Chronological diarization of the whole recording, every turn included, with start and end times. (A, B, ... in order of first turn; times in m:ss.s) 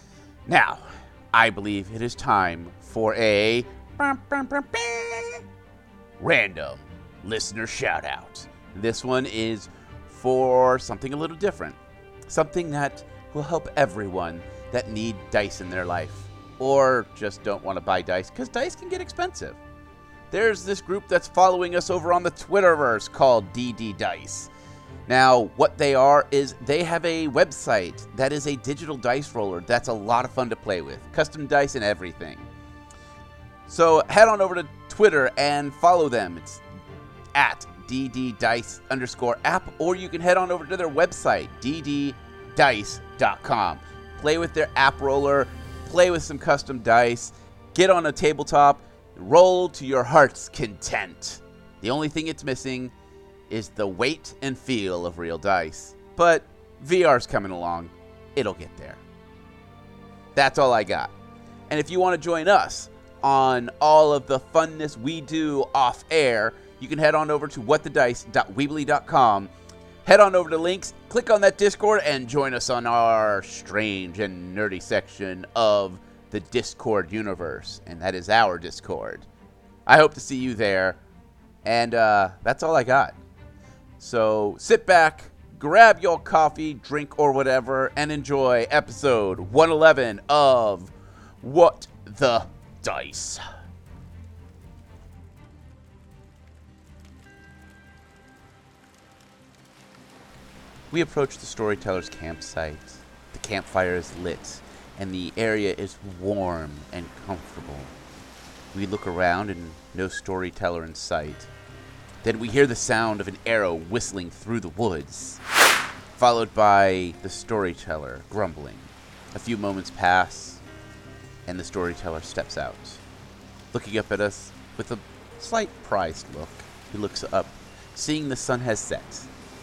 0:00.4-0:05.4 A
0:06.2-0:19.6 A
0:20.3-0:24.5 A
0:25.1-0:32.5 A
0:33.7-0:36.6 A
0:37.3-0:52.9 A
0:53.5-0:59.0 A
1:00.3-1:01.1 A
1:01.7-1:09.5 A
1:10.0-1:19.2 A
1:19.8-1:21.0 A
1:21.6-1:23.2 A
1:24.0-1:33.4 A
1:40.9-1:47.9 A
1:48.7-1:51.5 A
1:52.2-1:55.4 A
1:56.2-2:00.6 A
2:01.4-2:03.0 A
2:03.7-2:09.3 A